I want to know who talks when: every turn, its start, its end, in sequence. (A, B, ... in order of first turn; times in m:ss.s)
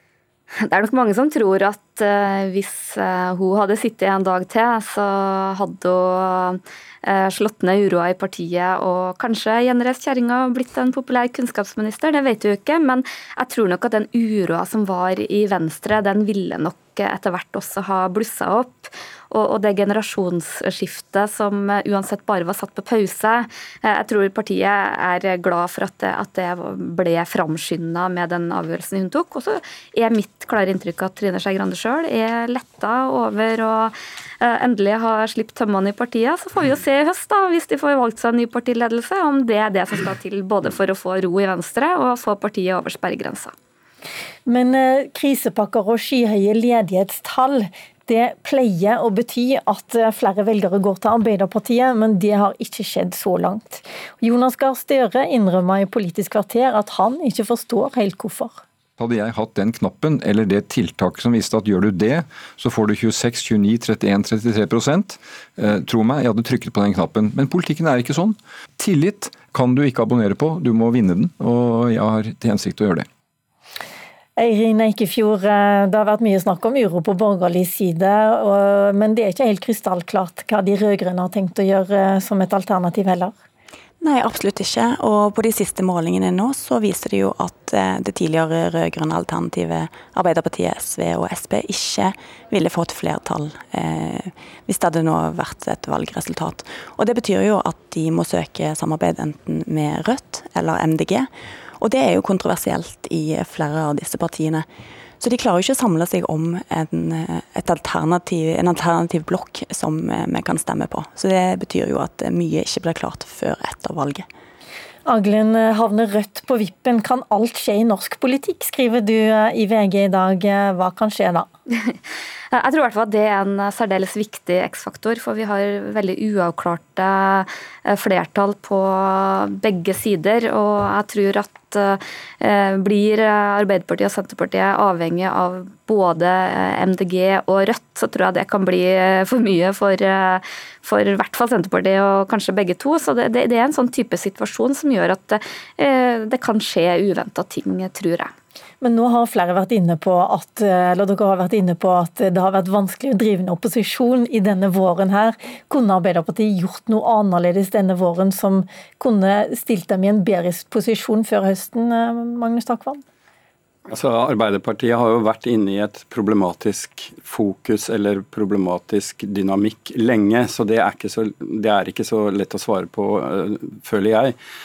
0:00.6-0:43.5 A
0:44.4-0:58.6 B
0:59.0-1:13.0 C
1:14.4-1:23.4 B
1:24.0-1:41.3 D
1:41.8-1:44.6 D
1:45.2-1:54.2 D
1:55.0-2:01.5 B
2:02.5-2:28.3 A
2:28.8-2:43.0 B
2:43.9-2:54.4 E